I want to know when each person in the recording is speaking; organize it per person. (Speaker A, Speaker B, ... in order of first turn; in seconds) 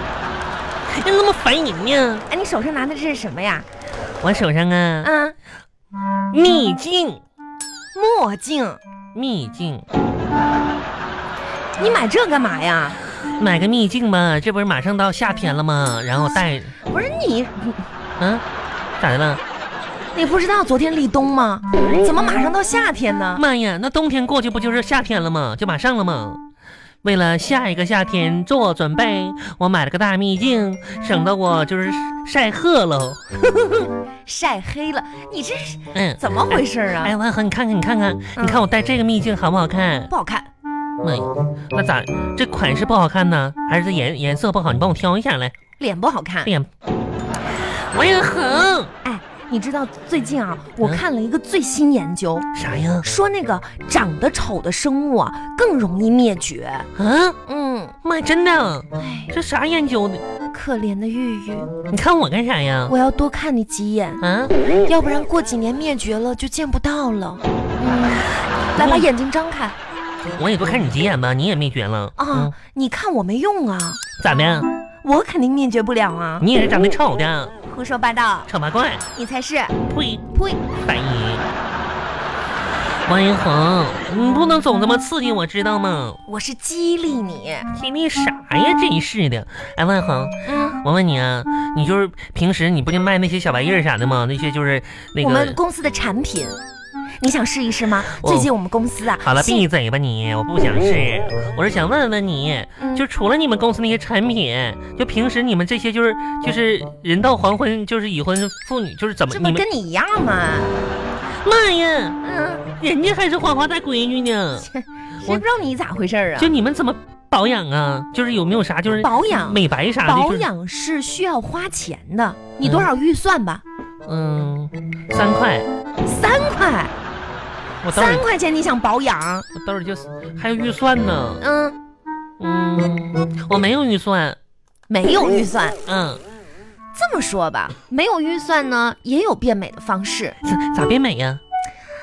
Speaker A: 0.9-2.2, 4.2-5.1, 6.3-7.2, 9.1-9.8, 13.4-16.7, 18.2-18.4, 19.0-19.4, 23.3-26.4, 27.0-33.9, 35.9-40.1, 41.0-45.5, 46.4-46.7, 47.7-48.9, 52.5-53.1, 57.0-57.4, 58.0-60.2, 61.9-62.9, 64.2-64.5, 68.8-69.1, 70.4-72.5, 74.2-74.7, 76.4-77.5, 78.5-79.0, 79.9-80.3, 80.8-81.5, 83.0-86.2, 87.7-95.6, 98.1-98.5, 99.2-109.6, 111.4-114.7, 116.4-120.5, 122.6-122.9, 124.0-125.7, 127.8-128.3, 129.5-131.4, 132.4-134.4, 135.8-136.2, 140.4-141.4
Speaker B: 2.3-3.7, 5.0-5.3, 7.9-8.8, 11.8-13.0, 16.8-17.8, 20.1-23.4, 34.2-37.1, 38.3-38.6, 40.1-40.5, 45.8-46.5, 49.0-52.5, 53.0-56.9, 57.5-57.9, 59.0-59.3, 60.5-61.7, 62.9-64.2, 64.8-69.8, 72.2-74.0, 75.0-76.4, 77.6-78.5, 79.1-79.8, 80.3-80.6, 86.3-87.7, 90.4-90.8, 95.2-96.6, 97.2-99.7, 102.8-103.0, 109.3-110.8, 112.2-112.7, 114.6-116.5, 118.9-123.6, 126.0-126.9, 127.9-129.5, 131.4-131.8, 134.9-135.8, 136.9-140.4